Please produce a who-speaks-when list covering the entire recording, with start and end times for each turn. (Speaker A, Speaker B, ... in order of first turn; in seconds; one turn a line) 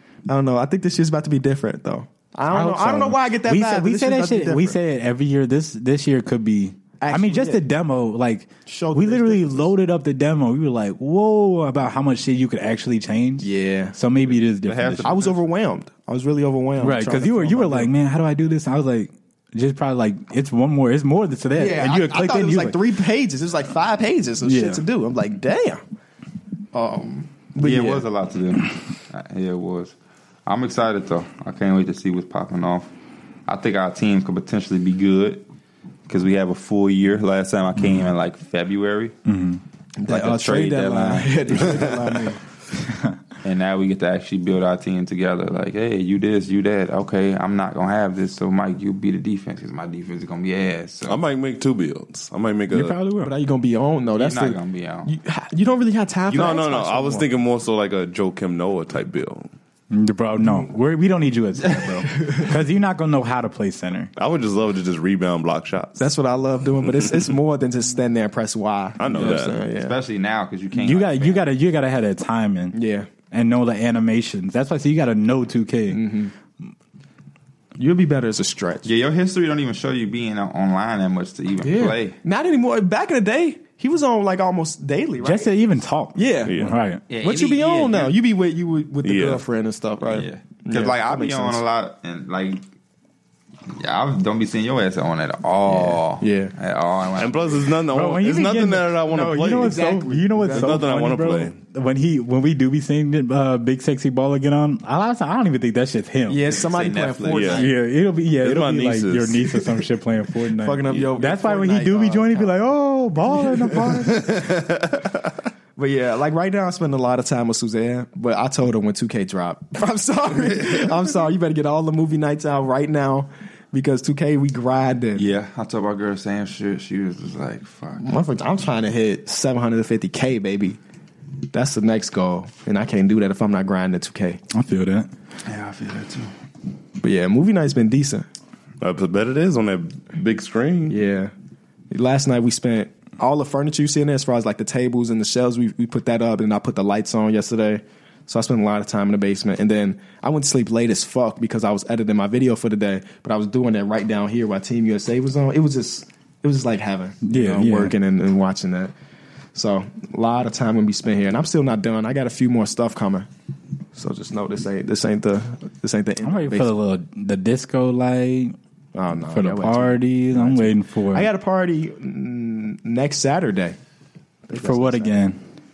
Speaker A: 0.3-4.8
Speaker B: 2.5-15.1
Speaker A: 7.0-7.6
Speaker A: 8.7-9.7
Speaker A: 13.4-13.9
Speaker C: 14.6-15.4
Speaker A: 15.0-17.9
Speaker B: 16.8-22.8
Speaker A: 21.5-25.8
Speaker B: 24.4-24.8
Speaker A: 26.7-28.0
Speaker C: 27.6-29.9
Speaker C: 30.4-32.9
Speaker C: 33.5-35.4
Speaker C: 36.1-39.1
Speaker B: 39.2-39.6
Speaker A: 40.0-42.4
Speaker C: 40.1-42.3
Speaker B: 42.9-43.1
Speaker C: 43.4-51.2
Speaker D: 51.1-53.0
Speaker B: 52.7-53.3
Speaker A: 53.2-57.3
Speaker C: 54.1-55.1
Speaker D: 56.3-59.5
Speaker B: 59.9-64.1
Speaker A: 62.1-62.4
Speaker D: 64.1-66.1
Speaker A: 66.0-70.0
Speaker D: 67.0-67.3
Speaker D: 69.0-69.6
Speaker C: 69.2-71.4
Speaker B: 70.8-72.8
Speaker A: 72.7-73.1
Speaker B: 73.3-76.0
Speaker A: 75.9-76.3
Speaker A: 77.8-78.9
Speaker C: 78.8-82.2
Speaker A: 81.6-85.5
Speaker B: 85.2-87.0
Speaker A: 86.1-86.6
Speaker D: 86.4-86.8
Speaker C: 87.1-88.2
Speaker A: 87.2-91.6
Speaker D: 89.0-89.4
Speaker C: 90.1-92.6
Speaker C: 93.7-97.6
Speaker A: 95.7-96.5
Speaker D: 97.2-99.8
Speaker B: 97.9-106.4
Speaker A: 99.1-100.8
Speaker D: 100.5-101.5
Speaker A: 106.3-107.7
Speaker C: 106.5-107.7
Speaker D: 107.3-107.7
Speaker B: 107.5-114.2
Speaker D: 108.4-109.8
Speaker A: 110.6-112.6
Speaker A: 113.2-114.1
Speaker D: 113.9-115.3
Speaker A: 115.8-125.2
Speaker C: 125.2-128.1
Speaker A: 128.0-130.8
Speaker A: 131.5-134.4
Speaker B: 134.5-135.1
Speaker C: 135.4-136.3
Speaker A: 137.0-138.3
Speaker D: 138.8-140.9
Speaker A: 140.9-141.3
Speaker A: 141.9-158.9
Speaker B: 157.2-157.9
Speaker A: 159.5-163.3
Speaker A: 163.9-166.7
Speaker B: 166.2-168.6
Speaker A: 168.9-173.8
Speaker B: 169.3-171.3
Speaker A: 174.5-175.2
Speaker B: 174.6-175.4